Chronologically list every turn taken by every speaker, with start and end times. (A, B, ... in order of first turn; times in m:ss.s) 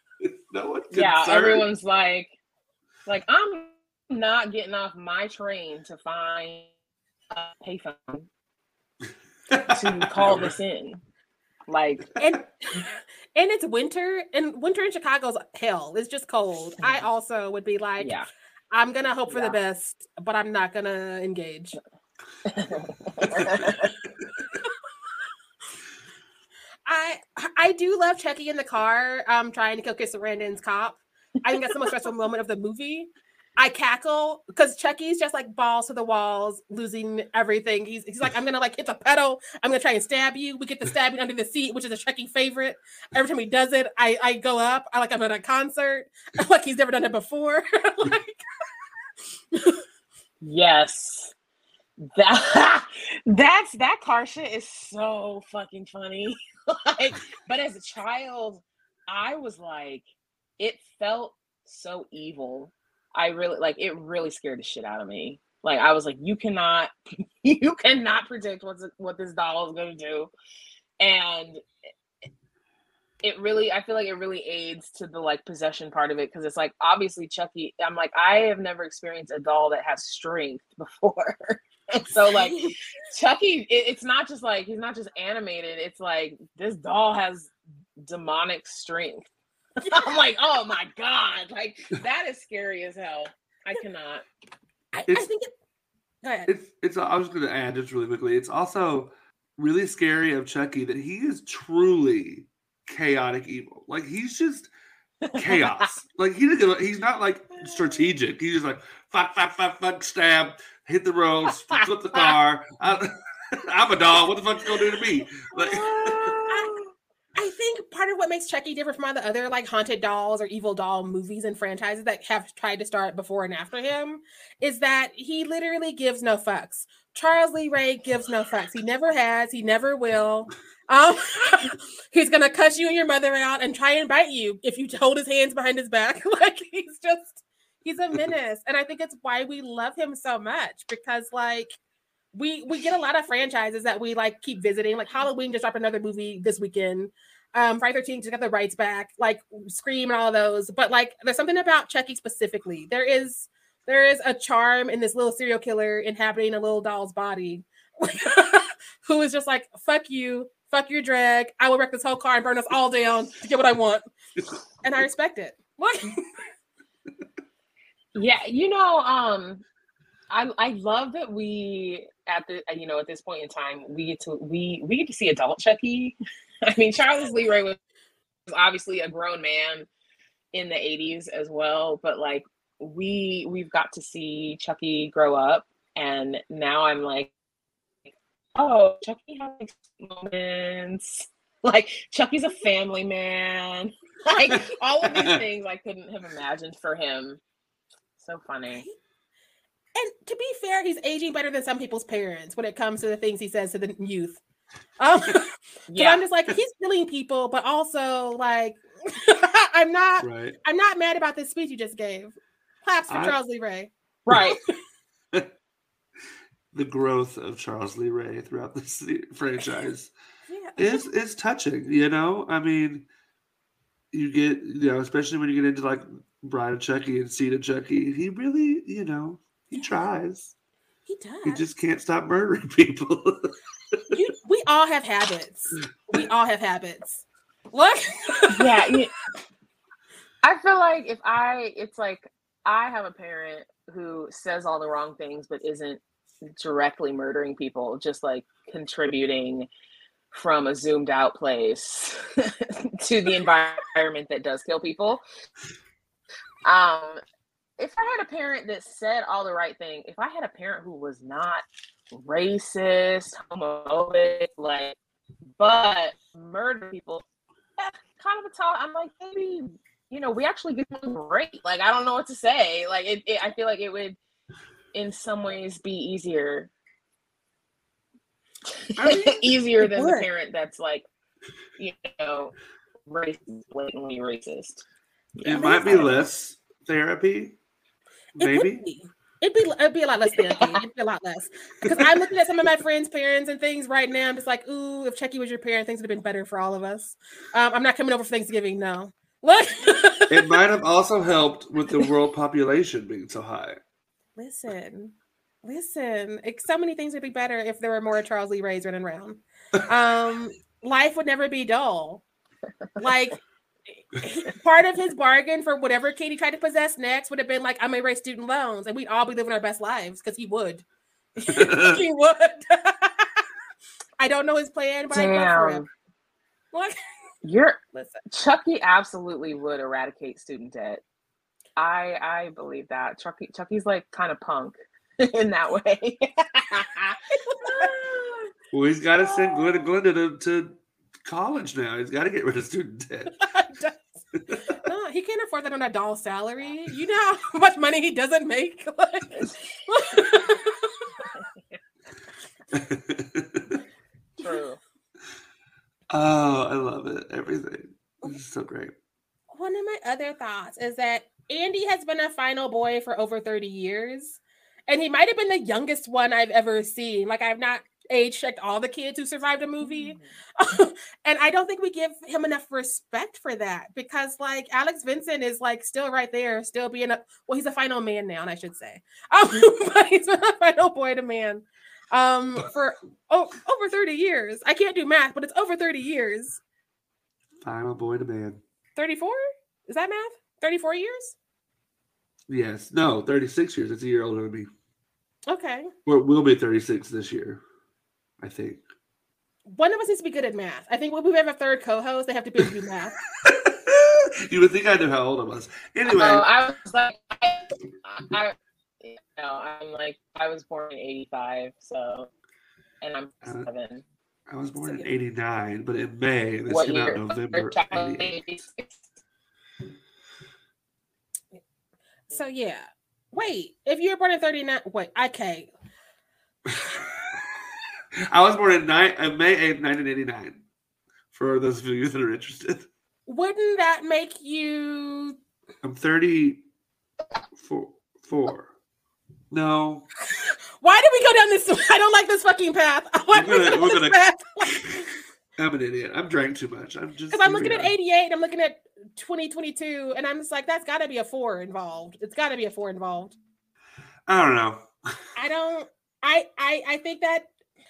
0:00.2-0:01.7 A
0:00.9-0:02.4 B
0:03.1-0:06.7 B
0:07.3-0:08.3 B
0:09.5-0:10.6 A
0:09.7-0:11.0 B
0:11.7-0:12.1 B
0:12.2-0:18.1 C
0:18.0-0:18.3 B
0:18.7-0:21.8 C
0:19.3-0:19.6 B
0:22.5-0:23.9 B
0:23.4-0:24.4 A
0:26.9-0:48.4 C
0:49.5-0:49.8 C
0:50.4-0:51.3 B
0:52.1-1:00.0 B
1:00.6-1:10.3 B
1:11.0-1:11.6 B
1:13.2-1:34.2 B
1:22.3-1:22.8 C
1:29.8-1:30.1 C
1:34.9-1:35.5 C
1:36.2-1:36.5 C
1:36.5-1:44.7 A
1:45.2-1:45.9 B
1:45.4-1:56.4 A
1:51.7-1:52.3 B
1:55.5-1:56.9 B
1:57.4-2:21.8 C
2:22.3-2:44.0 C
2:44.8-2:46.2 C
2:48.1-2:49.6 B
2:50.3-2:57.8 B
2:58.5-2:59.9 B
3:00.5-3:07.3 B
3:08.6-3:17.4 B
3:14.5-3:15.4 A
3:18.2-3:18.9 B
3:18.7-3:19.0 C
3:20.0-3:24.4 C
3:25.0-3:33.9 C
3:25.9-3:26.2 B
3:30.2-3:30.6 A
3:33.1-3:33.4 A
3:34.3-3:34.6 B
3:36.7-3:40.1 A
3:40.5-3:41.0 C
3:40.8-3:43.1 A
3:44.1-3:50.5 A
3:51.1-3:51.7 C
3:51.4-3:54.0 A
3:54.1-3:59.0 C
3:58.5-3:59.1 B
4:00.4-4:06.0 B
4:06.6-4:09.7 B
4:10.3-4:15.2 B
4:16.6-4:17.2 B
4:17.8-4:25.0 B
4:25.6-4:27.2 B
4:27.8-4:34.2 B
4:34.9-4:36.7 B
4:38.7-4:41.0 B
4:39.0-4:39.5 A
4:39.8-4:40.3 C
4:41.8-4:42.5 B
4:43.1-4:44.8 B
4:45.4-4:46.1 B
4:45.4-4:47.6 A
4:45.5-4:46.2 C
4:48.4-5:00.6 C
4:48.4-4:48.8 A
4:50.4-4:50.8 B
5:00.3-5:03.8 A
5:04.4-5:12.2 C
5:13.0-5:13.4 C
5:14.2-5:20.8 C
5:21.4-5:23.4 C
5:21.5-5:22.0 A
5:24.2-5:25.8 C
5:25.1-5:25.9 B
5:27.4-5:31.0 B
5:27.9-5:28.2 C
5:31.8-5:38.5 B
5:37.3-5:38.1 C
5:38.7-5:43.3 A
5:39.2-5:39.8 B
5:43.3-5:44.2 C
5:44.8-5:51.4 C
5:52.7-5:53.7 A
5:54.4-5:54.8 B
5:56.1-5:58.9 A
5:59.5-6:26.6 C
6:09.8-6:10.3 B
6:27.6-6:28.6 A
6:29.0-6:31.4 C
6:32.5-6:34.7 A
6:35.5-6:35.9 C
6:36.1-6:37.6 A
6:38.4-6:38.8 A
6:39.7-6:43.1 C
6:43.4-6:46.4 A
6:46.1-6:52.3 B
6:53.0-6:54.0 B
6:54.5-6:58.3 A
6:54.8-6:55.0 C
6:56.7-6:59.0 B
7:02.3-7:05.7 C
7:08.3-7:10.6 A
7:11.3-7:12.9 A
7:13.3-7:15.4 C
7:15.8-7:16.6 A
7:17.6-7:18.7 A
7:19.5-7:20.0 A
7:20.3-7:25.1 C
7:23.3-7:24.8 A
7:25.6-7:27.9 A
7:27.3-7:33.4 C
7:34.3-7:34.9 A
7:35.4-7:37.5 C